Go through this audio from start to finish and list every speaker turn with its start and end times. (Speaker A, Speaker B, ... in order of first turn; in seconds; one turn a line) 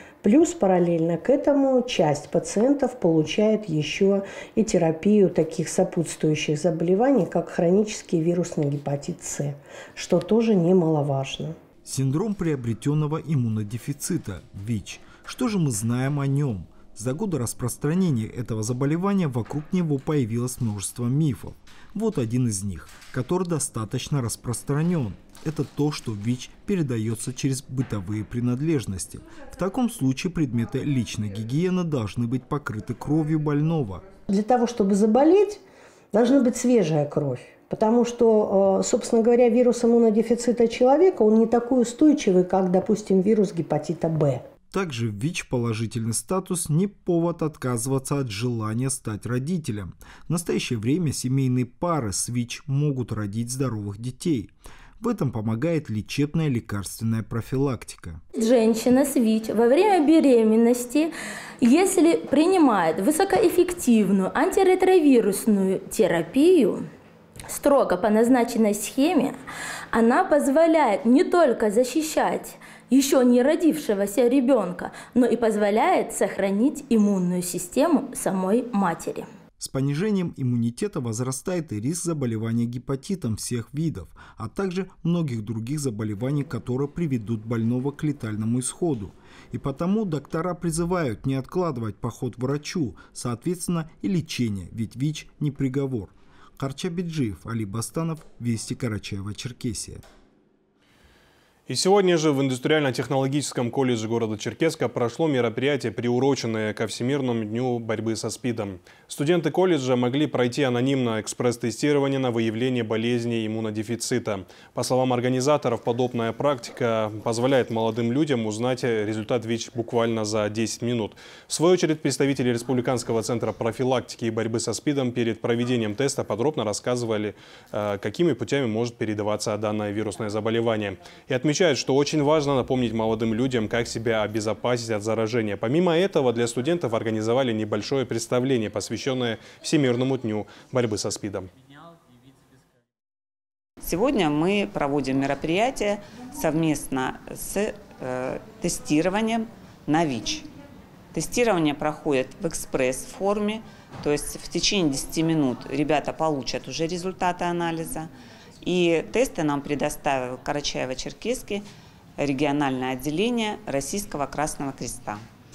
Speaker A: 0.2-11.6
Speaker B: 11.8-34.1
Speaker A: 34.3-35.6
Speaker A: 36.1-44.4
Speaker B: 44.7-58.2
Speaker C: 58.4-61.1
Speaker C: 61.6-66.8
Speaker C: 67.5-69.4
Speaker C: 69.9-79.3
Speaker B: 79.6-100.0
Speaker D: 101.7-141.5
Speaker E: 143.8-150.5
Speaker E: 151.1-158.1
Speaker E: 158.6-161.7
Speaker E: 162.2-165.2